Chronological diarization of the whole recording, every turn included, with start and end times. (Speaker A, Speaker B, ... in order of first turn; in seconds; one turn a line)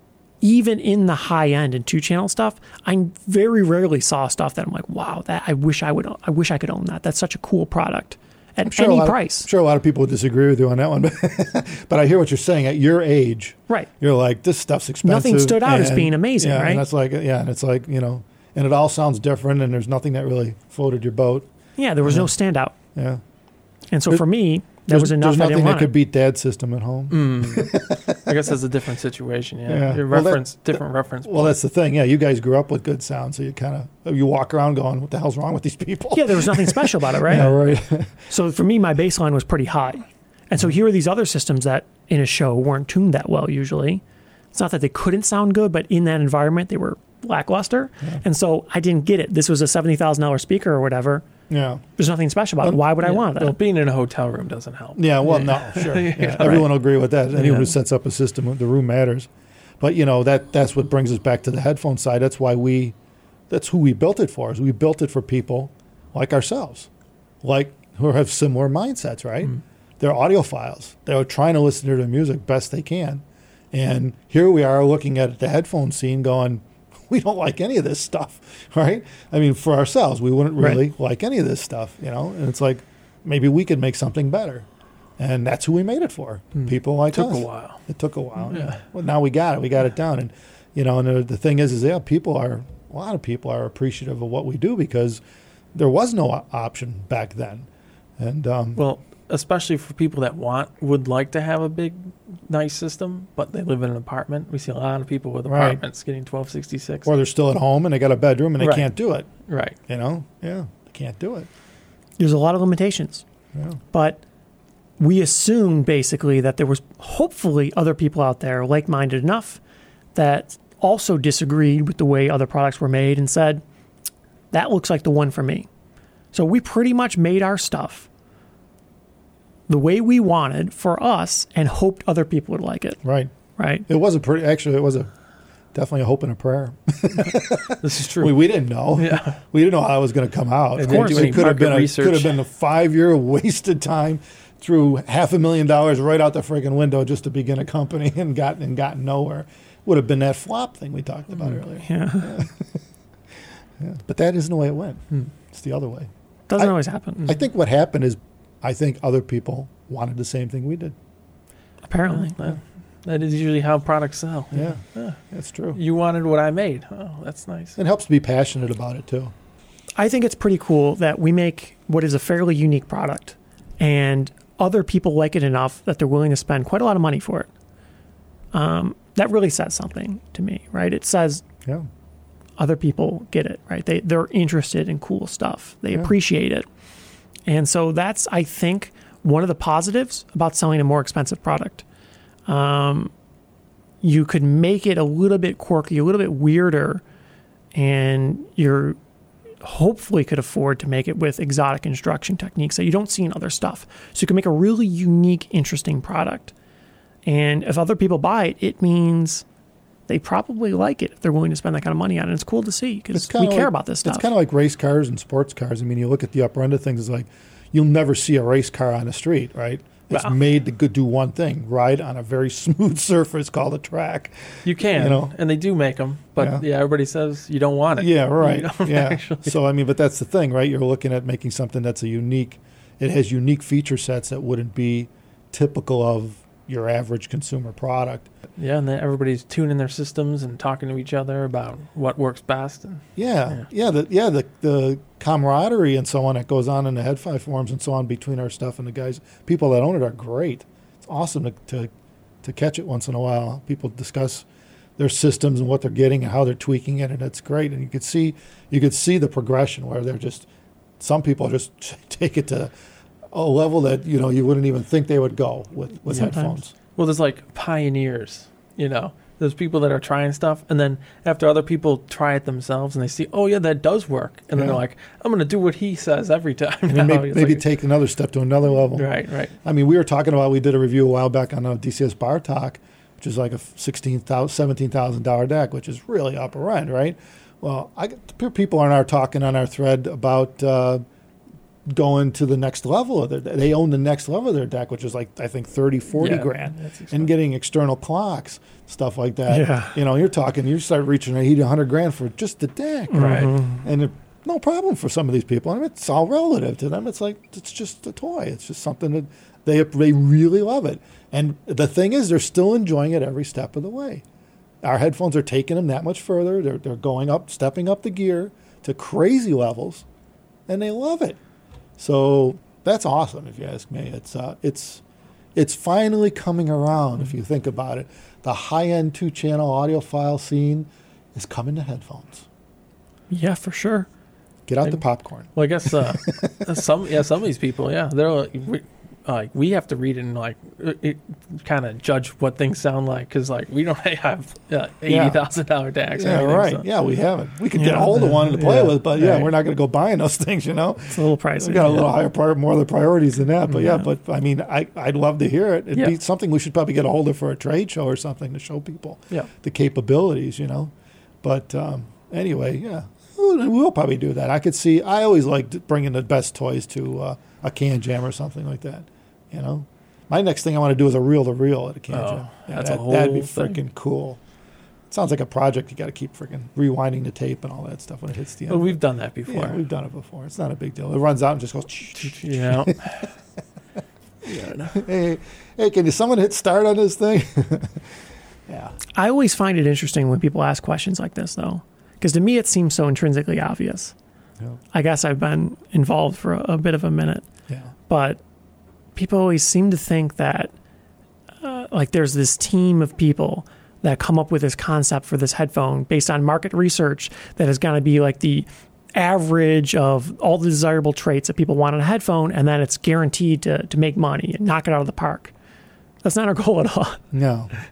Speaker A: 0.4-9.5
Speaker B: 8.6-21.5
Speaker A: 15.0-16.8
Speaker A: 21.8-22.7
Speaker B: 22.0-22.3
Speaker B: 22.9-23.2
Speaker A: 23.9-25.9
Speaker B: 24.9-28.2
Speaker C: 27.1-31.6
Speaker B: 29.7-30.5
Speaker B: 31.2-38.2
Speaker A: 36.1-37.6
Speaker A: 38.3-44.0
Speaker A: 44.5-51.2
Speaker B: 51.5-51.8
Speaker A: 52.0-53.6
Speaker C: 53.0-56.8
Speaker B: 55.0-59.3
Speaker C: 57.3-57.7
Speaker B: 59.8-62.9
Speaker B: 63.5-66.9
Speaker B: 67.4-84.7
Speaker A: 80.6-80.8
Speaker B: 85.2-95.2
Speaker C: 86.6-87.8
Speaker C: 88.5-88.8
Speaker B: 95.7-98.8
Speaker C: 98.8-107.1
Speaker B: 105.5-105.8
Speaker B: 107.0-109.3
Speaker C: 108.6-108.9
Speaker C: 109.5-109.8
Speaker B: 109.9-111.5
Speaker A: 112.2-113.2
Speaker B: 113.5-113.8
Speaker A: 113.9-114.2
Speaker A: 115.0-119.6
Speaker A: 120.1-123.6
Speaker A: 124.5-125.7
Speaker A: 126.3-128.1
Speaker A: 129.7-133.0
Speaker B: 133.0-133.3
Speaker A: 133.6-133.9
Speaker B: 133.9-135.1
Speaker B: 135.7-152.8
Speaker C: 137.7-139.4
Speaker C: 140.8-142.4
Speaker A: 140.8-141.4
Speaker A: 151.8-152.4
Speaker B: 153.8-156.7
Speaker A: 156.5-157.3
Speaker B: 157.2-160.9
Speaker A: 161.9-162.4
Speaker C: 162.0-165.2
Speaker B: 164.5-165.8
Speaker C: 165.7-167.8
Speaker B: 167.8-169.3
Speaker A: 170.0-177.5
Speaker A: 178.5-181.4
Speaker A: 182.6-186.7
Speaker A: 187.5-191.8
Speaker A: 192.5-193.1
Speaker A: 194.0-197.0
Speaker A: 197.7-199.0
Speaker A: 199.6-206.5
Speaker A: 207.2-209.4
Speaker A: 210.1-214.3
Speaker B: 213.1-225.3
Speaker C: 224.6-229.5
Speaker B: 226.4-226.6
Speaker B: 228.0-238.3
Speaker C: 238.6-243.6
Speaker B: 243.2-251.9
Speaker B: 252.4-254.4
Speaker B: 255.0-260.5
Speaker B: 261.0-262.7
Speaker B: 263.3-266.7
Speaker A: 266.1-266.6
Speaker C: 266.1-266.4
Speaker C: 266.9-277.7
Speaker B: 274.5-274.8
Speaker B: 276.9-279.1
Speaker C: 278.9-279.5
Speaker B: 279.6-291.0
Speaker B: 291.9-314.2
Speaker C: 296.1-297.3
Speaker A: 299.5-300.0
Speaker A: 303.1-303.8
Speaker C: 303.1-303.5
Speaker B: 314.8-320.0
Speaker B: 320.7-321.4
Speaker B: 322.0-325.0
Speaker B: 325.5-332.5
Speaker A: 333.3-334.1
Speaker B: 334.7-336.7
Speaker C: 335.5-346.9
Speaker B: 345.1-345.4
Speaker B: 346.1-360.9
Speaker A: 347.7-348.4
Speaker C: 348.1-349.5
Speaker A: 351.1-352.1
Speaker B: 361.4-374.4
Speaker C: 372.1-373.8
Speaker B: 375.1-383.1
Speaker C: 378.7-379.8
Speaker C: 382.2-383.3
Speaker C: 384.4-385.0
Speaker B: 384.9-388.1
Speaker B: 388.7-388.9
Speaker A: 389.1-394.1
Speaker A: 394.9-397.4
Speaker A: 398.1-398.4
Speaker A: 399.1-400.7
Speaker A: 401.6-415.5
Speaker A: 416.2-417.2
Speaker B: 417.3-417.7